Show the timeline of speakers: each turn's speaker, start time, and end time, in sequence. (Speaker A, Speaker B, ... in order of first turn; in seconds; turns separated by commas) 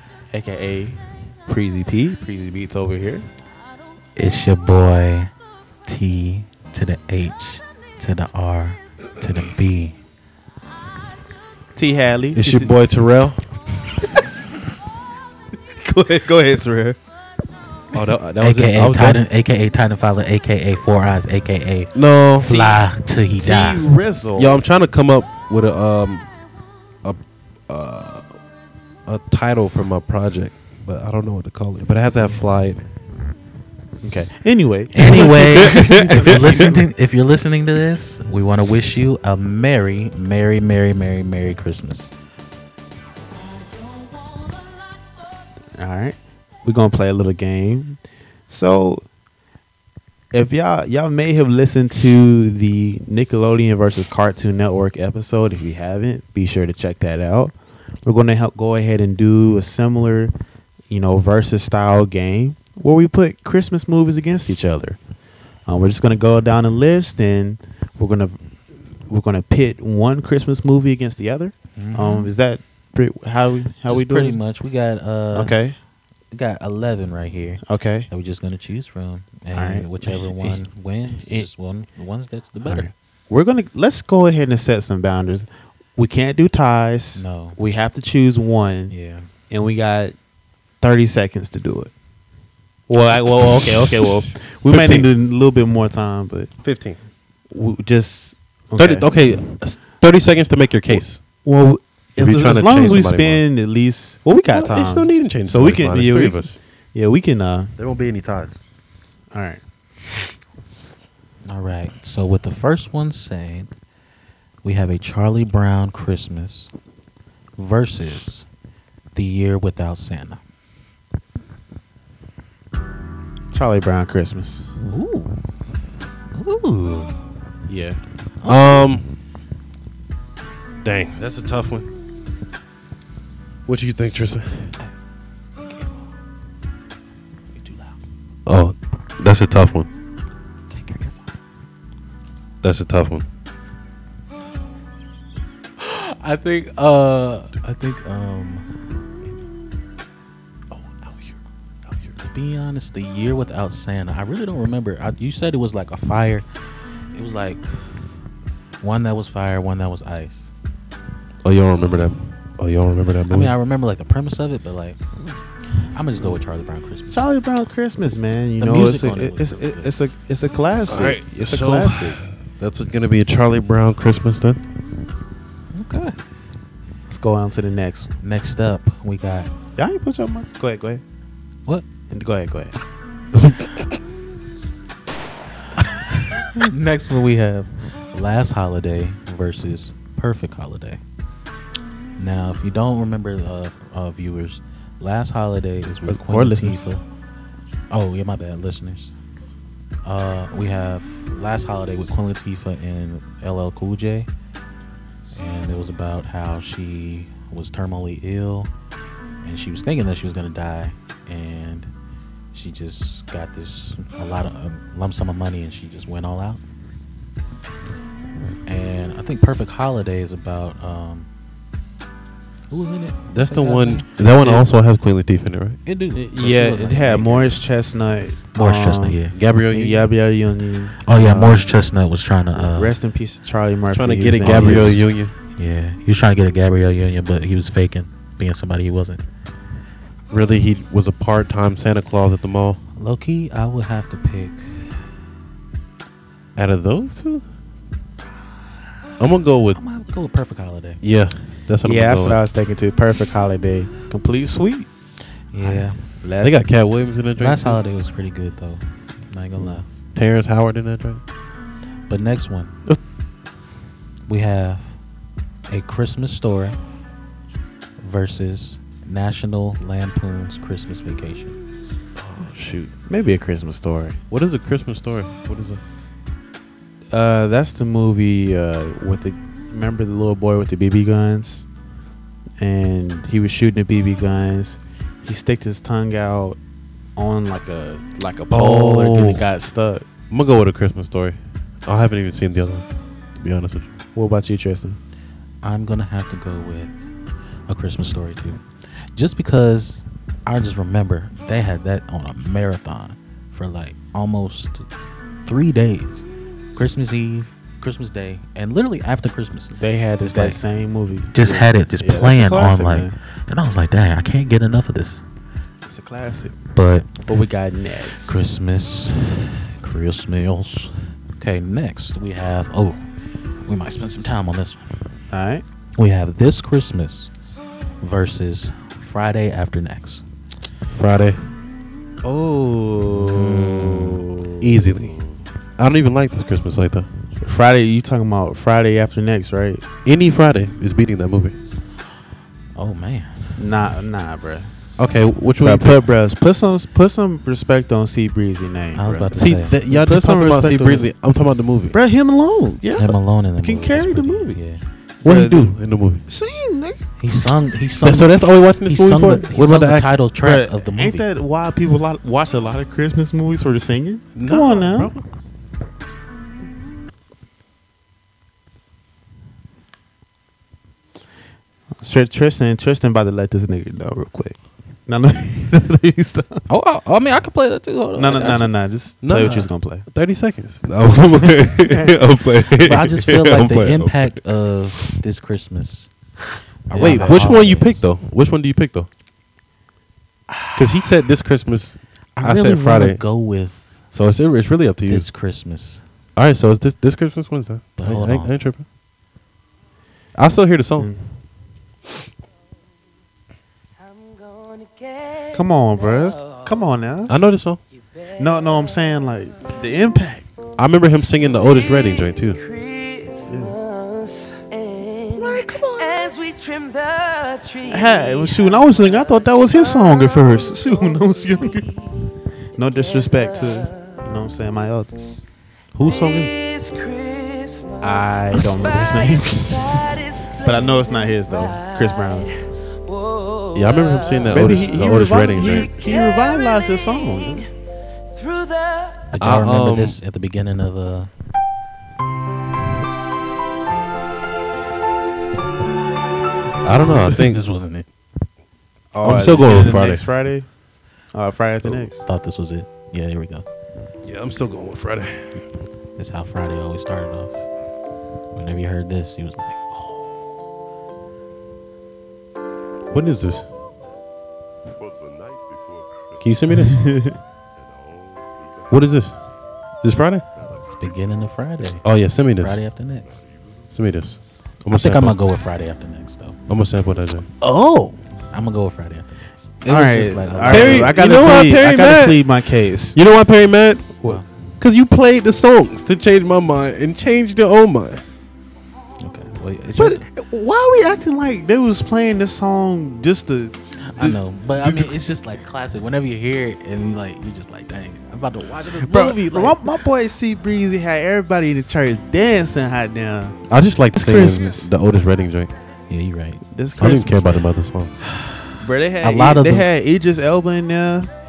Speaker A: 0.3-3.3, Speaker B: 4.2-5.3, Speaker B: 5.9-10.0, Speaker A: 11.8-12.7, Speaker C: 12.3-13.4, Speaker A: 15.8-17.0, Speaker C: 17.9-19.3, Speaker B: 18.4-23.9, Speaker C: 21.9-22.6, Speaker A: 22.4-22.8, Speaker A: 23.4-24.6, Speaker C: 24.4-26.3, Speaker C: 27.0-28.3, Speaker C: 29.1-32.9, Speaker A: 34.0-36.9, Speaker B: 34.9-42.1, Speaker C: 35.8-36.4, Speaker A: 45.8-49.0, Speaker A: 50.3-60.3, Speaker A: 60.9-65.0, Speaker A: 65.7-68.4, Speaker A: 69.1-74.4, Speaker B: 71.8-72.3, Speaker B: 73.9-75.6, Speaker A: 75.3-75.8, Speaker B: 76.3-82.9, Speaker A: 77.7-78.1, Speaker A: 79.5-80.6, Speaker A: 81.1-81.5, Speaker A: 82.6-88.9, Speaker B: 87.2-87.6, Speaker B: 88.9-89.3, Speaker A: 89.5-90.2, Speaker A: 90.8-91.9, Speaker A: 92.9-96.5, Speaker C: 93.4-95.1, Speaker C: 96.6-97.0, Speaker A: 97.5-99.1, Speaker C: 98.8-101.2, Speaker A: 100.9-107.7, Speaker C: 102.2-103.4, Speaker C: 104.5-106.6, Speaker C: 107.8-108.6, Speaker A: 109.3-109.6, Speaker B: 111.5-113.7, Speaker B: 114.6-116.7, Speaker B: 117.6-118.5, Speaker B: 119.2-120.4, Speaker A: 123.5-124.8, Speaker B: 124.8-125.4, Speaker B: 126.3-127.2, Speaker A: 127.7-128.0, Speaker B: 128.4-128.9, Speaker C: 128.4-129.1, Speaker C: 130.8-131.9, Speaker C: 133.7-134.8, Speaker B: 137.5-137.9, Speaker C: 138.5-139.9, Speaker B: 140.7-141.3, Speaker C: 142.6-143.2, Speaker B: 145.8-148.7, Speaker C: 150.7-152.2, Speaker B: 152.2-156.5, Speaker B: 157.1-157.7, Speaker B: 158.8-160.4, Speaker C: 161.4-163.6, Speaker B: 163.3-165.0, Speaker B: 165.9-167.2, Speaker A: 167.1-172.2, Speaker B: 168.6-169.9, Speaker C: 170.9-174.6, Speaker B: 175.7-176.2, Speaker A: 177.1-178.1, Speaker B: 178.2-179.5, Speaker A: 179.8-181.0, Speaker A: 182.1-182.8, Speaker C: 183.3-183.7, Speaker B: 186.3-191.0, Speaker B: 192.2-197.0, Speaker A: 196.1-196.8, Speaker B: 197.9-199.1, Speaker B: 200.1-204.3, Speaker B: 205.3-208.7, Speaker B: 209.4-211.9, Speaker B: 212.5-216.6, Speaker B: 218.7-221.3, Speaker B: 222.7-224.1, Speaker C: 223.3-225.8, Speaker B: 225.9-227.6, Speaker A: 226.1-229.2, Speaker B: 228.6-229.3, Speaker C: 229.3-230.1, Speaker A: 229.7-231.7, Speaker B: 231.1-232.9, Speaker A: 232.6-235.0, Speaker C: 233.9-235.3, Speaker B: 234.4-235.0, Speaker B: 235.6-239.2, Speaker C: 240.3-242.8, Speaker B: 243.0-245.0, Speaker C: 246.6-247.4, Speaker C: 249.2-249.8, Speaker B: 249.7-251.0, Speaker C: 251.0-252.4, Speaker A: 251.8-254.9, Speaker B: 255.5-256.0, Speaker A: 255.6-256.6, Speaker C: 256.4-257.8, Speaker B: 257.4-259.9, Speaker C: 260.1-261.2, Speaker B: 262.1-262.8, Speaker B: 264.3-265.0, Speaker B: 265.7-266.8, Speaker B: 268.0-271.6, Speaker C: 272.2-272.9, Speaker A: 273.1-274.2, Speaker C: 274.3-275.8, Speaker A: 277.1-281.6, Speaker A: 282.6-286.6, Speaker A: 287.2-290.1, Speaker C: 288.5-289.4, Speaker C: 290.3-292.9, Speaker C: 293.4-293.9, Speaker A: 294.1-295.0, Speaker B: 295.6-297.1, Speaker B: 297.7-298.6, Speaker B: 299.1-304.9, Speaker B: 305.5-310.6, Speaker A: 309.8-313.1, Speaker B: 311.3-315.2, Speaker A: 315.9-316.6, Speaker B: 316.7-317.2, Speaker A: 317.3-318.5, Speaker B: 318.3-323.0, Speaker B: 323.6-324.9, Speaker A: 325.3-325.6, Speaker B: 326.0-327.3, Speaker B: 328.0-330.2, Speaker C: 330.9-331.5, Speaker A: 332.2-335.4, Speaker B: 333.1-334.3, Speaker C: 334.6-335.1, Speaker C: 335.8-337.1, Speaker A: 337.4-339.9, Speaker C: 340.1-341.6, Speaker B: 342.8-343.6, Speaker A: 343.6-344.7, Speaker C: 345.0-346.0, Speaker A: 345.6-351.1, Speaker B: 348.9-349.8, Speaker C: 349.3-352.0, Speaker A: 351.9-354.6, Speaker B: 353.0-354.8, Speaker C: 355.2-356.2, Speaker A: 355.2-355.7, Speaker A: 356.3-357.0, Speaker B: 357.2-361.2, Speaker C: 358.0-360.1, Speaker A: 360.4-365.1, Speaker C: 364.4-365.2, Speaker A: 372.0-376.6, Speaker B: 376.7-378.7, Speaker A: 378.2-380.1, Speaker C: 379.2-384.4, Speaker B: 382.8-386.1, Speaker B: 386.9-388.0, Speaker A: 386.9-387.4, Speaker C: 386.9-389.1, Speaker C: 390.8-393.2, Speaker B: 392.4-394.0, Speaker C: 394.1-395.3, Speaker B: 395.1-396.0, Speaker C: 396.4-398.9, Speaker B: 398.0-398.5, Speaker C: 400.4-401.1, Speaker A: 401.0-401.3, Speaker D: 404.0-406.7, Speaker A: 405.5-407.3, Speaker C: 407.3-407.8, Speaker D: 408.2-408.9, Speaker A: 408.4-410.5, Speaker C: 410.8-412.6, Speaker D: 411.5-422.1, Speaker A: 413.5-413.8, Speaker A: 415.4-416.4, Speaker A: 417.9-421.9, Speaker A: 422.8-425.4, Speaker D: 423.1-424.1, Speaker C: 425.9-426.5, Speaker D: 426.0-437.7, Speaker A: 428.0-432.5, Speaker C: 433.7-435.9, Speaker A: 434.5-437.7, Speaker D: 438.3-439.3, Speaker B: 439.3-441.3, Speaker C: 439.4-440.2, Speaker C: 446.8-447.6, Speaker B: 447.2-448.1, Speaker A: 449.1-450.7, Speaker C: 449.2-450.2, Speaker A: 451.3-452.2, Speaker B: 452.2-453.7, Speaker C: 454.2-455.5, Speaker B: 456.2-457.7, Speaker B: 458.5-460.2, Speaker C: 463.1-463.7, Speaker E: 464.9-466.4, Speaker C: 466.4-467.1, Speaker A: 466.8-467.4, Speaker E: 467.8-468.9, Speaker C: 468.9-469.4, Speaker C: 470.0-470.4, Speaker E: 470.6-471.3, Speaker B: 470.9-472.1, Speaker C: 471.9-472.8, Speaker B: 472.6-473.3, Speaker E: 473.3-473.9, Speaker C: 473.9-475.4, Speaker B: 474.9-476.6, Speaker C: 476.7-478.2, Speaker B: 478.5-481.1, Speaker A: 479.9-483.2, Speaker C: 480.7-482.5, Speaker C: 483.1-484.2, Speaker C: 484.8-488.2, Speaker B: 489.2-490.2, Speaker A: 490.0-494.4, Speaker B: 494.0-499.8, Speaker C: 494.8-495.1, Speaker A: 499.0-503.6, Speaker C: 503.7-505.7, Speaker A: 504.1-504.9, Speaker B: 506.1-506.6, Speaker A: 506.7-507.5, Speaker C: 507.0-508.2, Speaker B: 508.4-508.7, Speaker A: 508.8-511.3, Speaker B: 509.2-509.9